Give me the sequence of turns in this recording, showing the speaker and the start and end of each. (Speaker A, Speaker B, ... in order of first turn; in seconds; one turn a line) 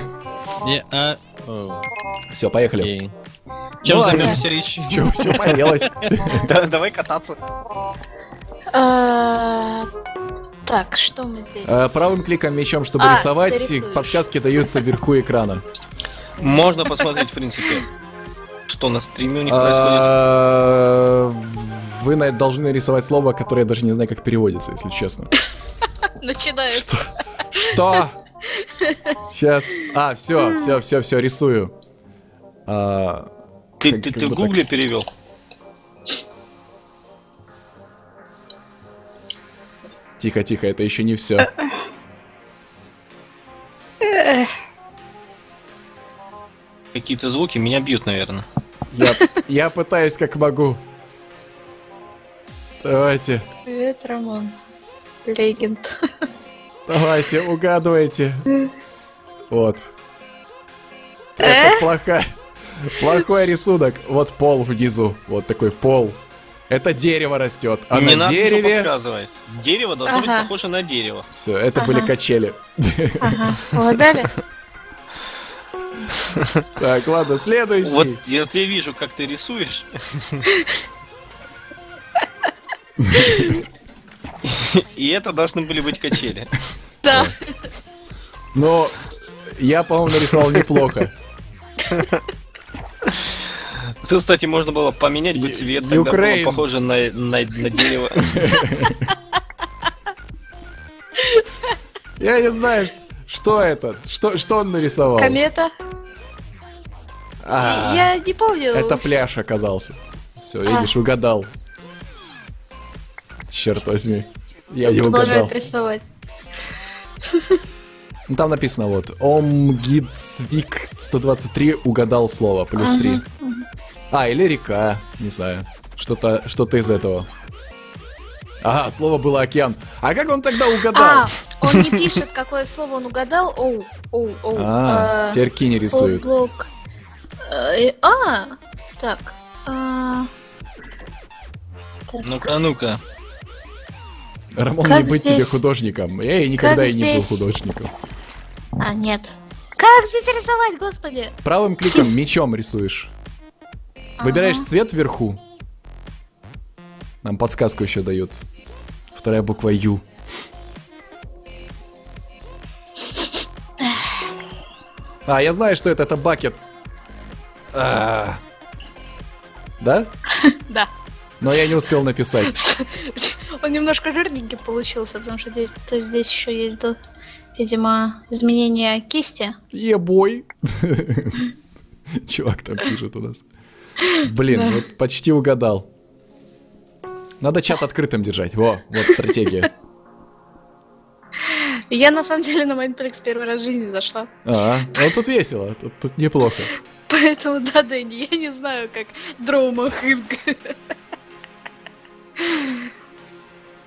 Speaker A: 0.6-1.9
Speaker B: 2.3-2.9
Speaker A: 2.8-3.1
Speaker A: 3.8-6.0
Speaker B: 3.9-6.5
Speaker C: 6.5-7.4
Speaker D: 8.7-9.9
Speaker D: 10.7-12.0
Speaker B: 11.6-15.6
Speaker D: 13.0-14.8
Speaker C: 16.4-17.9
Speaker C: 18.7-20.1
Speaker B: 19.5-25.4
Speaker D: 26.0-26.9
Speaker B: 26.7-28.2
Speaker D: 28.5-29.2
Speaker B: 29.3-31.7
Speaker D: 30.4-30.7
Speaker B: 32.7-34.7
Speaker C: 33.8-35.1
Speaker B: 40.2-41.5
Speaker D: 44.0-44.5
Speaker C: 46.9-48.5
Speaker B: 48.9-50.8
Speaker D: 49.0-49.3
Speaker B: 52.8-53.4
Speaker D: 53.7-54.6
Speaker D: 55.3-55.9
Speaker B: 56.9-58.5
Speaker B: 59.5-59.9
Speaker B: 61.4-66.2
Speaker D: 61.4-61.9
Speaker B: 66.7-68.9
Speaker C: 67.9-71.3
Speaker D: 70.1-70.5
Speaker B: 71.3-73.6
Speaker D: 71.8-72.1
Speaker D: 73.2-74.4
Speaker C: 76.2-76.6
Speaker B: 76.7-78.2
Speaker C: 77.8-80.5
Speaker D: 80.5-80.8
Speaker B: 83.0-83.6
Speaker D: 83.2-83.6
Speaker C: 84.4-86.5
Speaker D: 87.0-87.7
Speaker B: 87.1-87.3
Speaker B: 88.5-91.1
Speaker C: 90.2-90.8
Speaker C: 91.9-92.2
Speaker C: 93.1-98.3
Speaker B: 95.4-96.6
Speaker B: 98.2-99.1
Speaker D: 98.8-99.1
Speaker D: 101.2-101.7
Speaker B: 102.2-105.4
Speaker D: 105.2-105.7
Speaker B: 107.4-108.1
Speaker D: 107.5-109.2
Speaker B: 108.7-111.5
Speaker D: 110.7-110.9
Speaker B: 113.5-115.5
Speaker D: 114.8-116.0
Speaker D: 117.3-117.6
Speaker B: 118.3-123.2
Speaker D: 122.8-123.7
Speaker B: 124.1-127.3
Speaker B: 128.6-131.4
Speaker D: 130.9-136.7
Speaker C: 131.7-132.1
Speaker B: 134.6-136.3
Speaker D: 137.4-140.3
Speaker D: 142.1-142.4
Speaker C: 142.2-143.0
Speaker B: 144.6-147.9
Speaker D: 144.8-145.6
Speaker D: 146.6-147.5
Speaker D: 148.8-151.3
Speaker B: 151.4-153.1
Speaker D: 154.2-154.7
Speaker B: 154.2-155.4
Speaker B: 157.2-158.4
Speaker B: 159.1-160.0
Speaker D: 163.8-164.1
Speaker B: 165.3-166.7
Speaker B: 167.7-168.4
Speaker B: 169.8-170.1
Speaker D: 170.3-170.9
Speaker B: 171.4-172.6
Speaker D: 172.4-177.0
Speaker D: 177.6-179.6
Speaker B: 179.7-181.5
Speaker B: 182.2-183.5
Speaker D: 184.0-184.8
Speaker B: 184.1-185.9
Speaker B: 187.4-189.7
Speaker D: 191.4-194.3
Speaker B: 194.4-196.7
Speaker D: 197.1-200.8
Speaker D: 202.4-202.9